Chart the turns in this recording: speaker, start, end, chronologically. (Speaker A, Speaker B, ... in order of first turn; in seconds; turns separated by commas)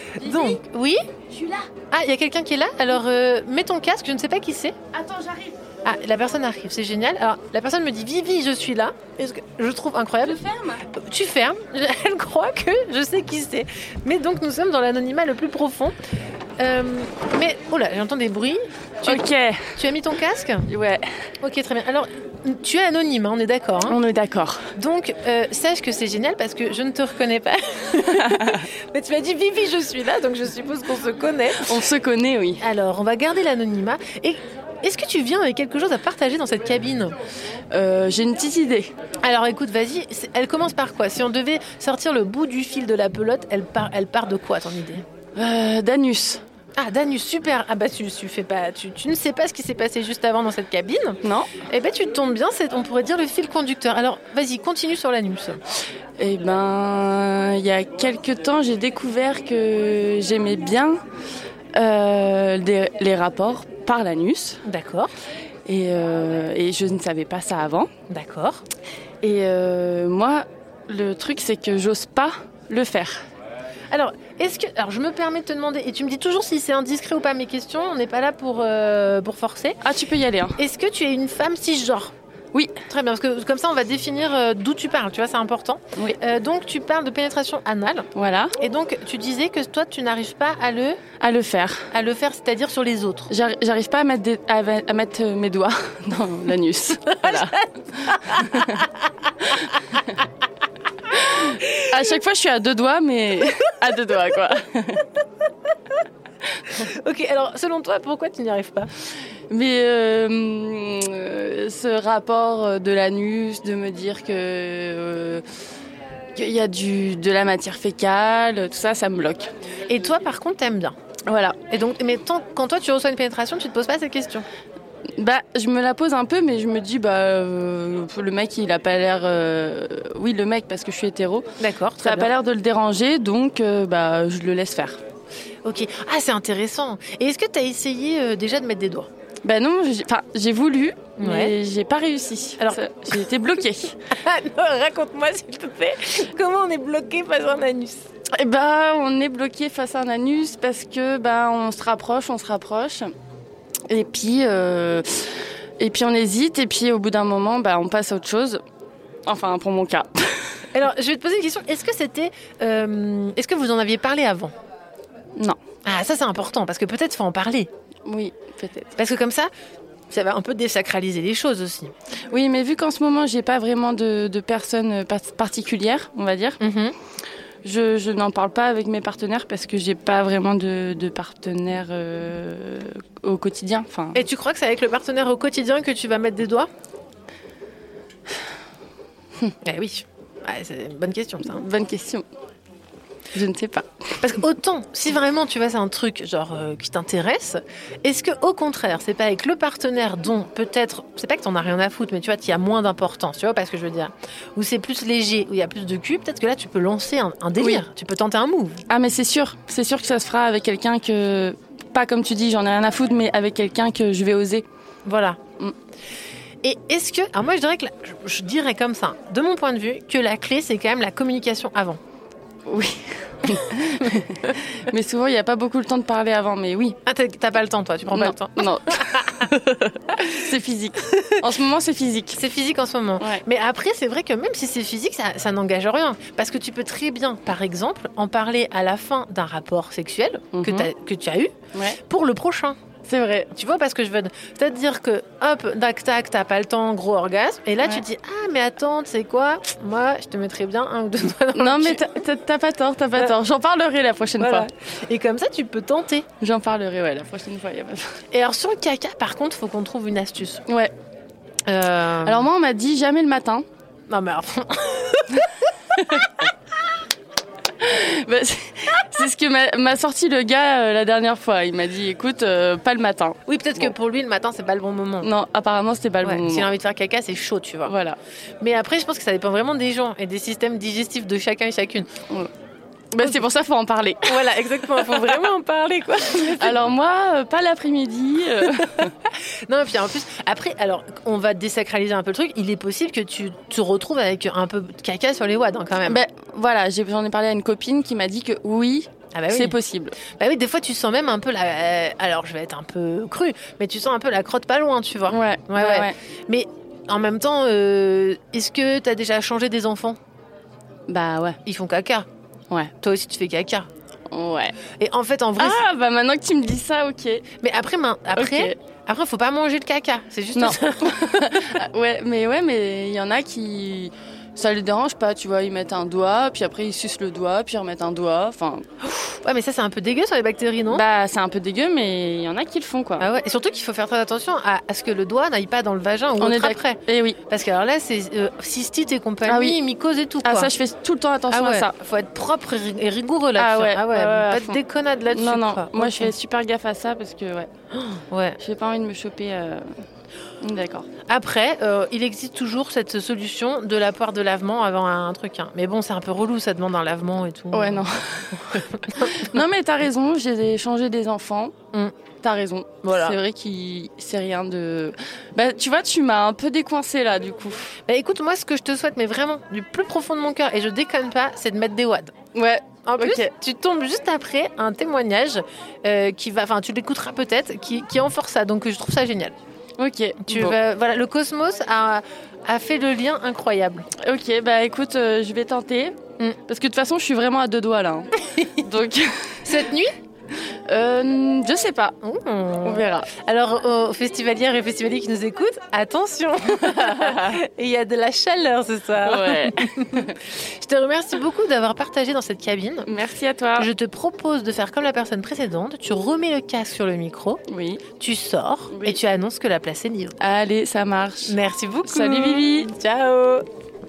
Speaker A: 0.2-1.0, Speaker B: 1.3-1.6, Speaker A: 1.8-4.8, Speaker C: 5.0-5.4, Speaker A: 5.8-15.9, Speaker A: 16.6-20.7, Speaker C: 19.1-19.7, Speaker C: 20.7-21.1, Speaker A: 21.4-24.0, Speaker C: 24.1-24.6, Speaker A: 24.7-31.9, Speaker C: 28.2-28.6, Speaker C: 31.8-32.6, Speaker A: 32.6-37.1, Speaker C: 37.7-38.9, Speaker A: 39.2-45.0, Speaker C: 45.4-46.4, Speaker A: 46.8-55.6, Speaker C: 56.2-61.0, Speaker C: 61.8-64.6, Speaker A: 64.7-65.1, Speaker C: 65.7-67.9, Speaker A: 68.1-68.6, Speaker C: 69.2-73.2, Speaker A: 73.9-79.8, Speaker C: 79.8-80.5, Speaker A: 80.6-82.1, Speaker A: 82.8-91.0, Speaker C: 88.2-88.5, Speaker C: 91.2-91.8, Speaker A: 91.9-93.3, Speaker C: 93.3-97.5, Speaker A: 97.1-99.8, Speaker A: 101.5-101.9, Speaker C: 101.9-105.0, Speaker A: 106.6-108.9, Speaker C: 109.5-115.4, Speaker C: 116.4-119.5, Speaker A: 119.9-121.0, Speaker C: 121.3-121.6, Speaker A: 121.7-124.5, Speaker C: 125.2-131.4, Speaker A: 131.6-132.3, Speaker C: 132.0-135.0, Speaker A: 135.7-139.1, Speaker C: 139.4-143.9, Speaker A: 141.2-141.6, Speaker A: 142.6-143.3, Speaker A: 144.1-148.1, Speaker C: 148.4-153.1, Speaker C: 153.9-155.2, Speaker C: 155.8-158.6, Speaker C: 159.3-160.1, Speaker A: 160.7-164.5, Speaker A: 165.8-167.7, Speaker C: 168.1-168.8, Speaker A: 168.9-169.5, Speaker A: 170.1-171.9, Speaker C: 172.3-176.6, Speaker A: 176.6-177.0, Speaker C: 177.7-184.2, Speaker A: 184.1-186.7, Speaker A: 189.6-191.7, Speaker C: 191.5-192.2, Speaker C: 193.3-193.9, Speaker A: 194.2-208.8, Speaker C: 208.9-214.7, Speaker A: 215.1-215.4, Speaker A: 216.6-222.0, Speaker C: 222.7-224.4, Speaker B: 224.5-224.8, Speaker C: 224.9-226.9, Speaker A: 227.1-230.3, Speaker C: 228.1-228.9, Speaker C: 230.3-232.4, Speaker A: 231.1-231.4, Speaker A: 232.3-242.8, Speaker C: 240.6-240.9, Speaker C: 243.1-243.5, Speaker A: 243.5-252.2, Speaker C: 251.6-254.7, Speaker A: 254.4-256.3, Speaker C: 256.4-258.1, Speaker A: 258.3-260.6, Speaker A: 261.7-262.5, Speaker C: 262.2-263.6, Speaker A: 264.1-265.7, Speaker C: 267.8-273.8, Speaker B: 268.8-269.2, Speaker A: 273.5-275.3, Speaker C: 275.2-276.7, Speaker A: 276.2-277.9, Speaker C: 277.9-278.2, Speaker A: 278.6-282.1, Speaker C: 283.1-284.2, Speaker A: 284.2-286.8, Speaker C: 286.6-289.1, Speaker A: 288.9-296.2, Speaker C: 296.1-300.1, Speaker A: 299.3-310.2, Speaker C: 305.3-306.1, Speaker C: 311.1-311.6, Speaker A: 311.7-312.3, Speaker A: 313.0-313.9, Speaker C: 314.3-314.7, Speaker A: 314.9-315.9, Speaker C: 315.6-317.4, Speaker A: 317.6-321.8, Speaker C: 318.4-318.8, Speaker C: 320.6-328.8, Speaker B: 320.8-321.8, Speaker A: 329.3-331.0, Speaker C: 330.9-333.2, Speaker A: 333.2-340.7, Speaker C: 336.4-337.4, Speaker C: 339.5-339.8, Speaker C: 340.4-341.9, Speaker A: 341.5-346.3, Speaker C: 343.6-344.8, Speaker C: 345.4-347.7, Speaker A: 347.9-348.6, Speaker C: 348.6-349.8, Speaker C: 350.6-351.0, Speaker A: 351.3-358.1, Speaker C: 357.7-358.5, Speaker A: 358.7-359.5, Speaker B: 359.2-359.5, Speaker C: 359.5-361.7, Speaker C: 362.4-367.8, Speaker B: 362.9-363.2, Speaker A: 363.0-363.4, Speaker A: 368.0-372.3, Speaker C: 372.6-373.5, Speaker A: 373.0-379.5, Speaker C: 380.0-380.8, Speaker A: 380.4-384.1, Speaker C: 384.2-386.1, Speaker C: 386.7-388.3, Speaker C: 388.9-389.3, Speaker A: 389.6-390.1, Speaker C: 390.9-392.1, Speaker A: 392.2-403.1, Speaker C: 392.9-393.3, Speaker C: 399.3-400.3, Speaker C: 403.1-403.9, Speaker A: 403.8-407.6, Speaker C: 407.7-408.0, Speaker A: 408.1-410.4, Speaker C: 408.9-409.2, Speaker C: 410.4-411.5, Speaker A: 411.4-413.6, Speaker B: 412.1-412.5, Speaker C: 412.1-412.9